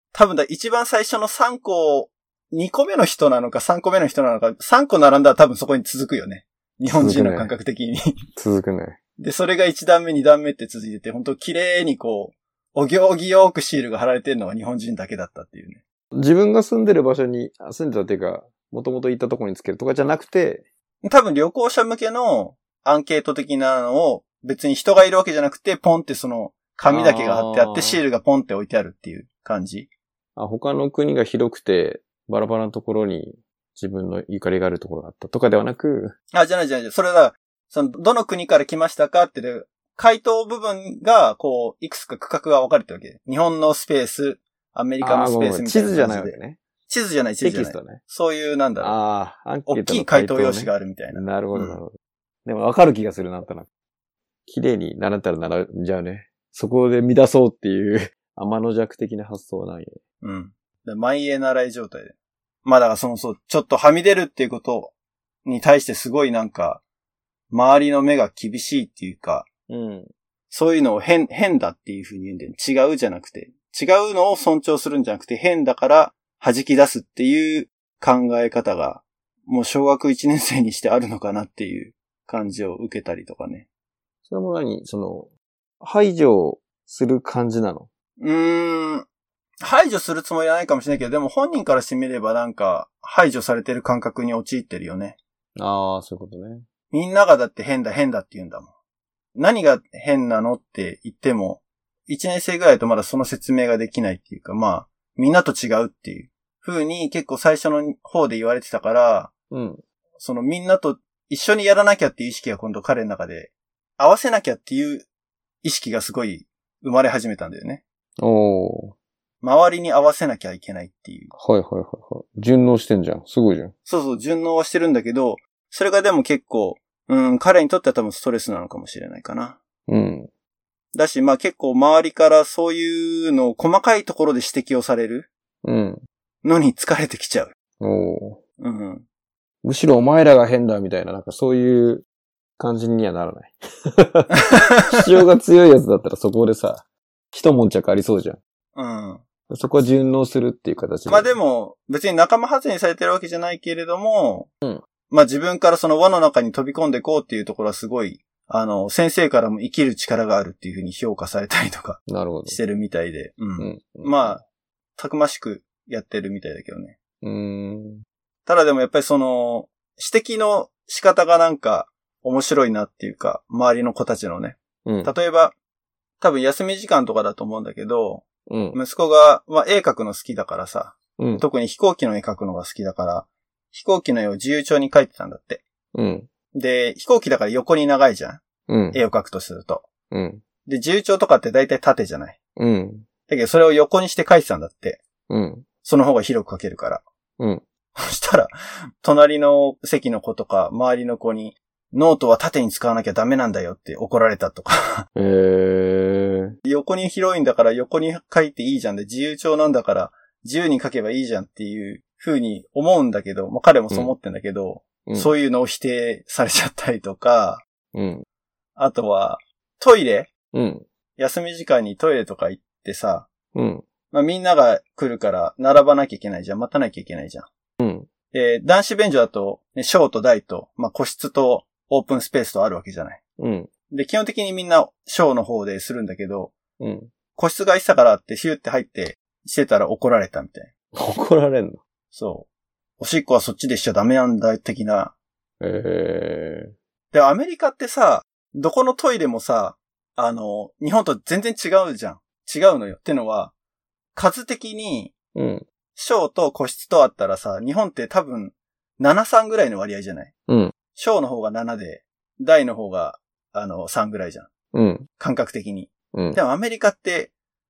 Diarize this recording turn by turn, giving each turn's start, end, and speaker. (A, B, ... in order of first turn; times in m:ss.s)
0:00.1-0:08.1 A
0:06.9-0:07.5 B
0:08.3-0:09.0 B
0:09.2-0:15.8 A
0:16.1-0:20.6 B
0:21.0-0:29.9 A
0:26.9-0:28.0 B
0:30.4-0:36.1 B
0:36.3-0:49.0 A
0:45.0-0:46.6 B
0:47.4-0:48.0 B
0:48.8-0:53.7 B
0:49.7-0:51.8 A
0:54.4-1:00.0 B
1:00.2-1:02.1 A
1:02.6-1:04.9 A
1:05.4-1:06.8 A
1:07.5-1:09.5 A
1:09.7-1:10.1 B
1:10.5-1:23.7 A
1:24.3-1:25.3 B
1:25.8-1:27.9 B
1:28.2-1:29.0 A
1:29.6-1:35.2 A
1:35.6-1:36.7 B
1:36.9-1:38.7 A
1:39.3-1:49.3 A
1:49.5-1:49.8 B
1:50.2-1:55.0 A
1:55.6-1:57.8 A
1:58.2-1:58.9 B
1:59.4-2:01.3 A
2:01.4-2:03.7 B
2:03.8-2:09.6 A
2:09.9-2:10.3 B
2:10.9-2:15.3 A
2:15.6-2:16.0 B
2:16.4-2:17.5 A
2:17.8-2:18.4 B
2:18.6-2:19.0 A
2:19.6-2:22.0 B
2:22.6-2:28.4 B
2:24.5-2:25.0 A
2:28.8-2:29.2 A
2:29.5-2:31.4 B
2:31.1-2:34.5 A
2:35.1-2:44.4 A
2:42.1-2:42.6 B
2:43.6-2:44.4 B
2:45.0-2:47.0 A
2:47.2-2:48.0 B
2:48.4-2:55.5 A
2:54.8-2:55.1 B
2:56.2-3:05.6 A
2:58.5-2:58.8 B
3:01.2-3:01.4 B
3:05.9-3:06.3 B
3:06.5-3:08.4 A
3:08.7-3:09.0 B
3:08.9-3:09.8 A
3:10.1-3:10.4 B
3:10.6-3:12.4 A
3:12.6-3:13.0 B
3:13.3-3:15.0 A
3:15.3-3:15.6 B
3:15.8-3:17.0 A
3:18.0-3:25.0 A
3:25.2-3:26.5 B
3:26.6-3:37.6 A
3:35.0-3:35.3 B
3:37.9-3:38.2 B
3:38.8-3:40.3 A
3:40.5-3:40.8 B
3:41.2-3:43.3 A
3:43.5-3:43.8 B
3:44.1-3:47.5 A
3:47.8-3:48.1 B
3:48.3-3:53.2 A
3:53.4-3:53.7 B
3:53.9-3:56.5 A
3:56.8-3:57.1 B
3:57.3-4:00.7 A
4:00.9-4:01.8 B
4:02.1-4:02.5 A
4:03.0-4:05.1 A
4:05.6-4:06.7 B
4:07.1-4:13.5 A
4:14.1-4:15.1 A
4:15.3-4:15.6 B
4:15.9-4:20.3 A
4:20.5-4:20.7 B
4:20.9-4:24.5 A
4:24.7-4:25.1 B
4:25.2-4:27.3 A